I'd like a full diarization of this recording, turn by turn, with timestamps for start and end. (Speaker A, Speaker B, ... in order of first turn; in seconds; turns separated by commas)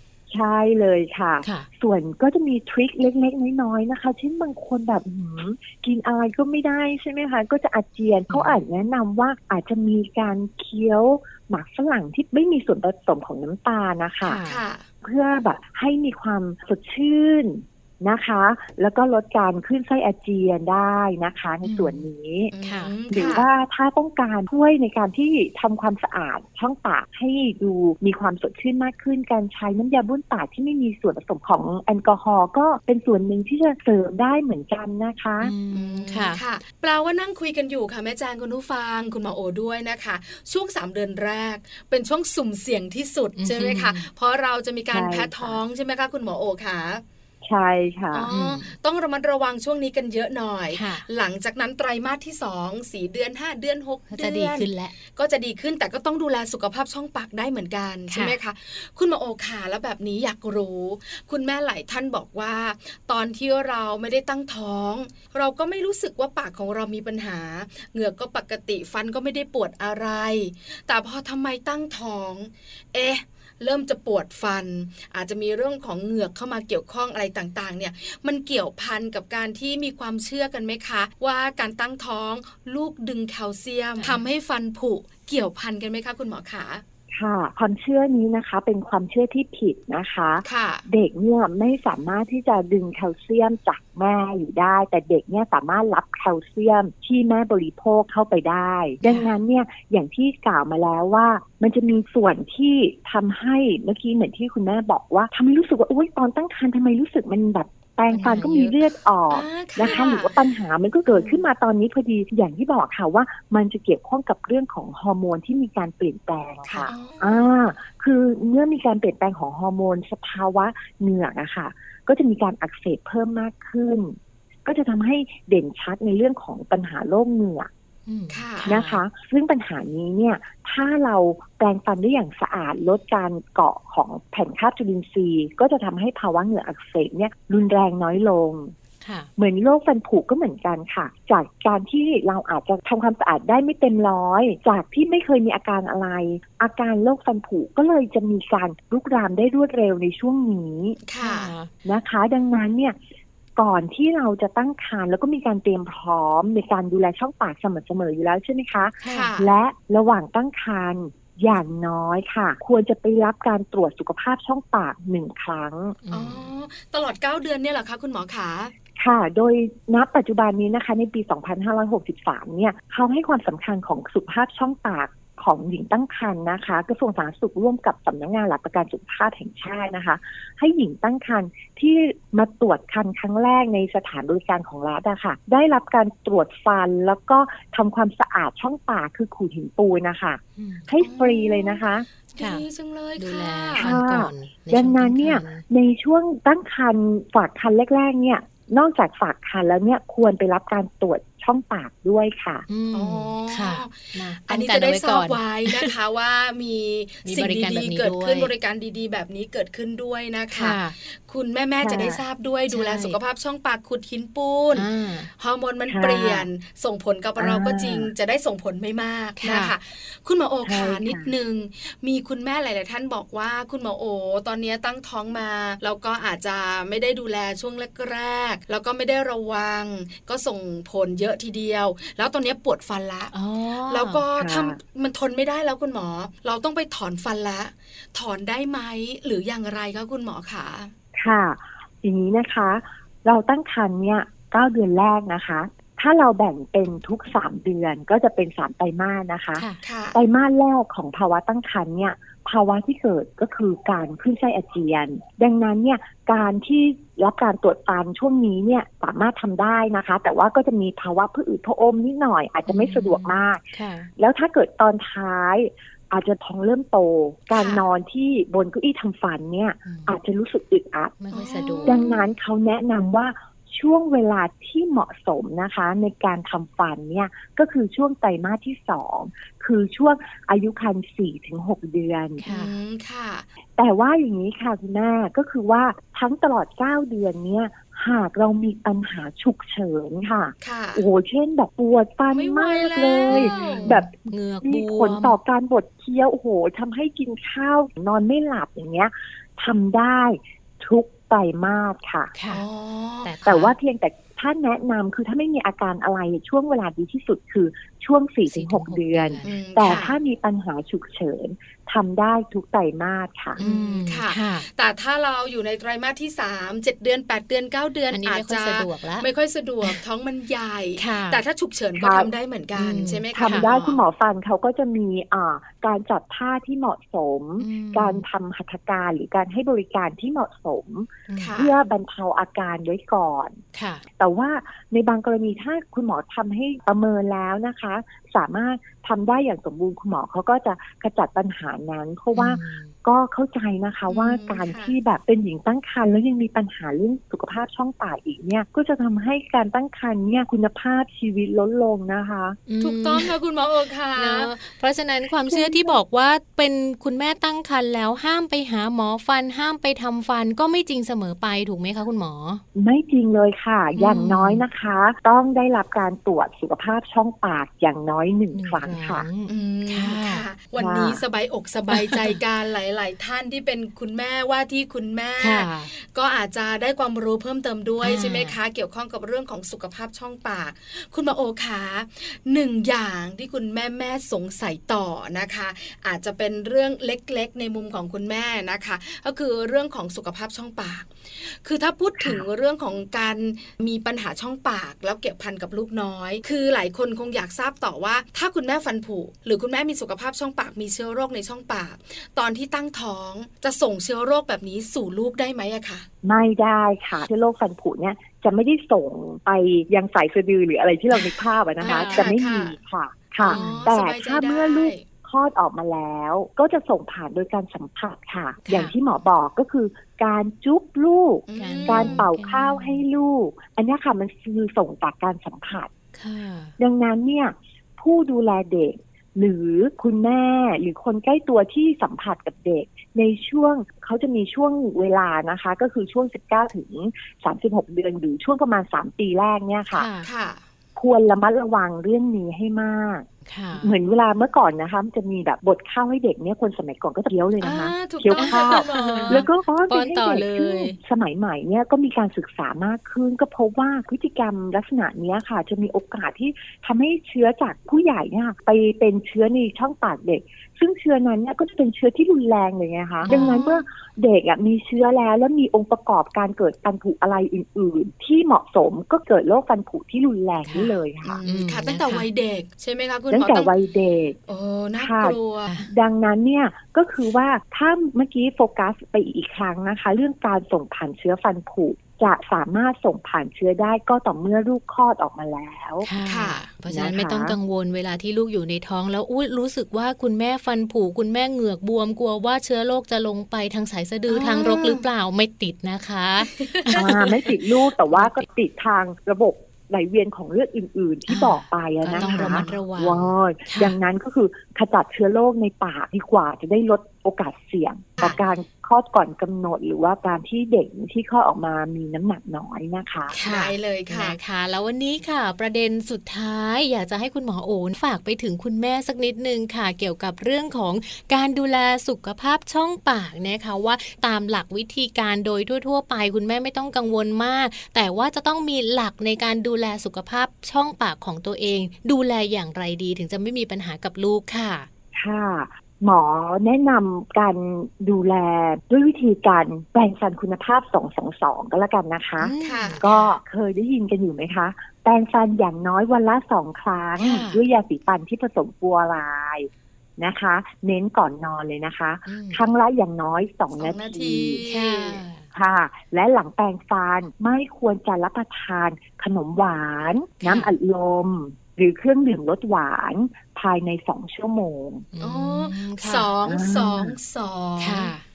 Speaker A: 0.3-14.4, Speaker B: 8.3-8.6, Speaker B: 14.2-14.6, Speaker C: 14.4-14.9, Speaker A: 15.0-22.5, Speaker B: 21.6-22.1, Speaker C: 22.5-23.5, Speaker B: 22.6-22.9, Speaker A: 23.1-35.5, Speaker B: 35.4-36.4, Speaker C: 35.7-47.0, Speaker B: 43.4-44.1, Speaker A: 44.9-45.6, Speaker A: 47.4-48.3, Speaker C: 48.1-86.8, Speaker B: 48.3-48.7, Speaker B: 50.7-51.0, Speaker B: 54.1-55.0, Speaker B: 58.1-58.4, Speaker A: 87.1-127.7, Speaker C: 90.4-90.8, Speaker B: 99.0-99.3, Speaker B: 108.1-108.8, Speaker C: 109.3-110.4, Speaker C: 116.7-117.5, Speaker B: 128.1-129.0, Speaker C: 128.3-128.8, Speaker A: 128.7-138.7, Speaker B: 139.0-139.3, Speaker A: 139.4-151.0, Speaker C: 151.1-151.5, Speaker B: 151.2-151.7, Speaker A: 151.8-153.0, Speaker A: 153.6-166.0, Speaker B: 159.0-159.3, Speaker C: 159.1-159.5, Speaker B: 166.1-166.5, Speaker C: 166.1-168.7, Speaker A: 169.0-192.1, Speaker B: 190.6-190.9, Speaker C: 191.0-193.9, Speaker B: 192.4-192.6, Speaker B: 193.2-195.6, Speaker A: 193.8-202.7, Speaker B: 202.7-205.9, Speaker C: 202.9-233.3, Speaker B: 207.2-208.5, Speaker B: 210.6-210.9, Speaker A: 211.8-212.2, Speaker B: 212.7-213.2, Speaker B: 214.7-215.3, Speaker A: 215.9-216.5, Speaker A: 217.4-218.1, Speaker B: 219.4-219.7, Speaker A: 220.6-221.3, Speaker B: 233.3-234.2, Speaker C: 233.9-240.9, Speaker A: 234.4-234.8, Speaker A: 241.1-271.2, Speaker C: 249.8-250.2, Speaker B: 262.7-264.1, Speaker C: 267.5-267.8, Speaker B: 269.9-270.2, Speaker B: 271.2-272.0, Speaker C: 271.3-272.3, Speaker A: 271.9-282.4, Speaker B: 282.4-282.7, Speaker C: 282.5-283.5, Speaker A: 283.8-302.3, Speaker C: 290.6-291.0, Speaker C: 292.3-294.0, Speaker B: 293.3-295.4, Speaker B: 302.3-302.6, Speaker C: 302.5-303.3, Speaker B: 303.2-303.8, Speaker A: 303.4-313.6, Speaker B: 308.5-310.1, Speaker C: 309.4-310.2, Speaker B: 313.6-314.7, Speaker C: 313.6-324.0, Speaker B: 318.1-319.3, Speaker B: 321.0-321.4, Speaker A: 322.0-322.3, Speaker B: 322.8-323.7, Speaker A: 323.3-333.6, Speaker B: 327.6-328.2, Speaker B: 331.3-331.6, Speaker C: 331.4-331.8, Speaker B: 333.7-334.1, Speaker A: 334.2-352.6, Speaker B: 342.3-342.9, Speaker C: 344.1-344.9, Speaker B: 352.7-353.3, Speaker C: 352.8-354.5, Speaker B: 354.2-362.6, Speaker C: 355.5-355.9, Speaker A: 362.8-369.3, Speaker B: 364.0-364.6, Speaker B: 368.5-370.4, Speaker C: 369.5-406.1, Speaker A: 370.8-371.2, Speaker B: 371.9-372.4, Speaker B: 375.4-375.9, Speaker B: 378.0-378.6, Speaker A: 406.2-425.9, Speaker B: 411.8-412.3, Speaker C: 411.8-412.8, Speaker C: 413.4-415.0, Speaker B: 413.5-413.9, Speaker B: 418.6-418.9, Speaker C: 421.5-422.2, Speaker B: 421.6-423.0, Speaker B: 426.1-426.8, Speaker A: 426.8-440.1, Speaker B: 439.9-440.3, Speaker C: 440.2-440.6, Speaker A: 441.0-471.4, Speaker B: 443.5-443.9, Speaker C: 447.6-449.5, Speaker B: 448.4-451.0, Speaker C: 463.2-463.9, Speaker B: 463.3-463.6, Speaker B: 470.7-472.3, Speaker C: 471.2-473.7, Speaker A: 473.3-474.4, Speaker C: 474.5-475.7, Speaker A: 475.0-486.1, Speaker B: 486.0-497.5, Speaker C: 486.2-486.7, Speaker A: 486.9-487.6, Speaker C: 494.3-495.0, Speaker C: 496.4-497.0, Speaker A: 496.9-513.4, Speaker B: 498.1-498.4, Speaker B: 501.3-504.0, Speaker C: 502.2-502.8, Speaker B: 513.3-534.9, Speaker C: 513.4-514.4, Speaker A: 535.1-554.6, Speaker B: 542.4-543.4, Speaker C: 542.6-543.0, Speaker B: 547.2-547.6, Speaker B: 552.3-552.6, Speaker C: 553.8-555.2, Speaker B: 554.7-555.5, Speaker A: 555.5-565.1, Speaker B: 560.4-560.8, Speaker B: 565.1-566.3, Speaker C: 565.2-568.1, Speaker A: 566.5-567.2, Speaker B: 567.8-568.2